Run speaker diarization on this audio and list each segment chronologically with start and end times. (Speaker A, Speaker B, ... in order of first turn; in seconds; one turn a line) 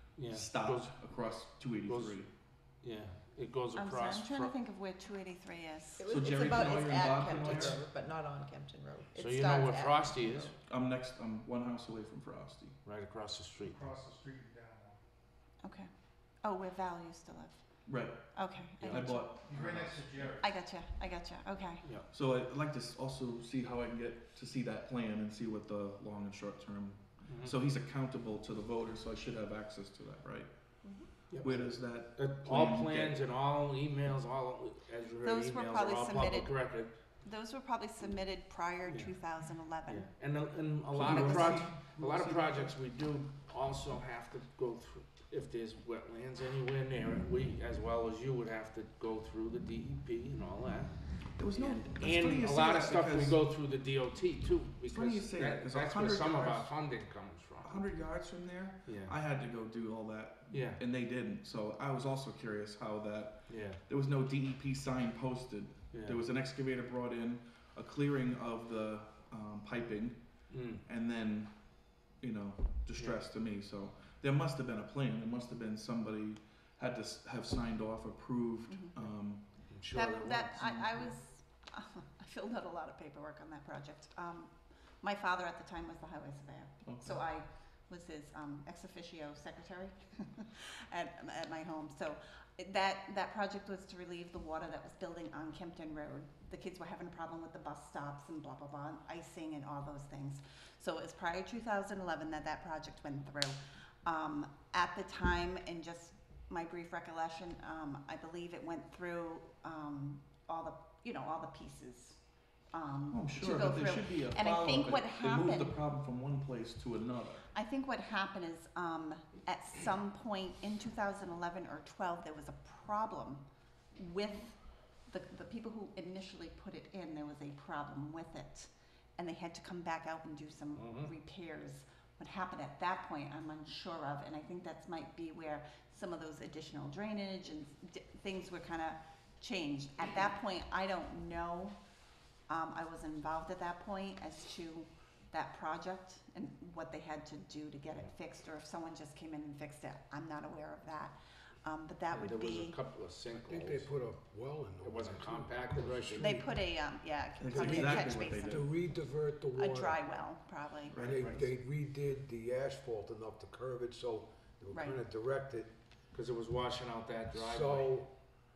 Speaker A: 0.1-1.0
Speaker B: 0.2-2.3
Speaker A: 1.9-2.2
Speaker A: 2.8-4.5
Speaker C: 3.8-6.8
Speaker D: 6.0-10.5
Speaker B: 6.1-7.8
Speaker A: 9.1-10.5
Speaker B: 10.6-12.8
Speaker A: 12.8-13.9
Speaker E: 13.7-14.9
Speaker C: 15.6-15.9
Speaker C: 16.4-19.3
Speaker B: 17.9-20.3
Speaker A: 18.8-19.2
Speaker E: 19.5-20.4
Speaker C: 20.4-21.9
Speaker B: 22.1-30.7
Speaker A: 27.3-27.5
Speaker C: 30.8-31.1
Speaker A: 31.3-36.9
Speaker B: 31.3-33.2
Speaker F: 31.4-31.7
Speaker C: 35.2-36.6
Speaker C: 37.2-40.1
Speaker A: 38.9-39.1
Speaker A: 39.9-57.9
Speaker B: 40.9-42.7
Speaker C: 41.1-41.5
Speaker B: 51.4-53.4
Speaker B: 54.9-56.7
Speaker B: 57.6-79.5
Speaker A: 58.8-59.1
Speaker A: 60.5-60.8
Speaker A: 63.5-63.8
Speaker A: 65.9-66.2
Speaker A: 70.5-70.8
Speaker C: 78.7-79.1
Speaker A: 79.7-81.1
Speaker C: 79.9-115.8
Speaker B: 86.8-87.2
Speaker B: 113.1-117.4
Speaker C: 117.5-123.4
Speaker C: 123.9-141.8
Speaker A: 130.8-131.1
Speaker C: 142.5-152.8
Speaker A: 152.1-153.9
Speaker F: 153.3-156.6
Speaker A: 154.8-156.4
Speaker C: 156.2-158.8
Speaker B: 157.4-158.6
Speaker F: 157.5-160.0
Speaker C: 159.5-161.1
Speaker B: 160.9-161.3
Speaker F: 161.0-165.7
Speaker A: 161.2-161.5
Speaker C: 164.7-165.0
Speaker A: 166.1-167.9
Speaker F: 167.3-168.1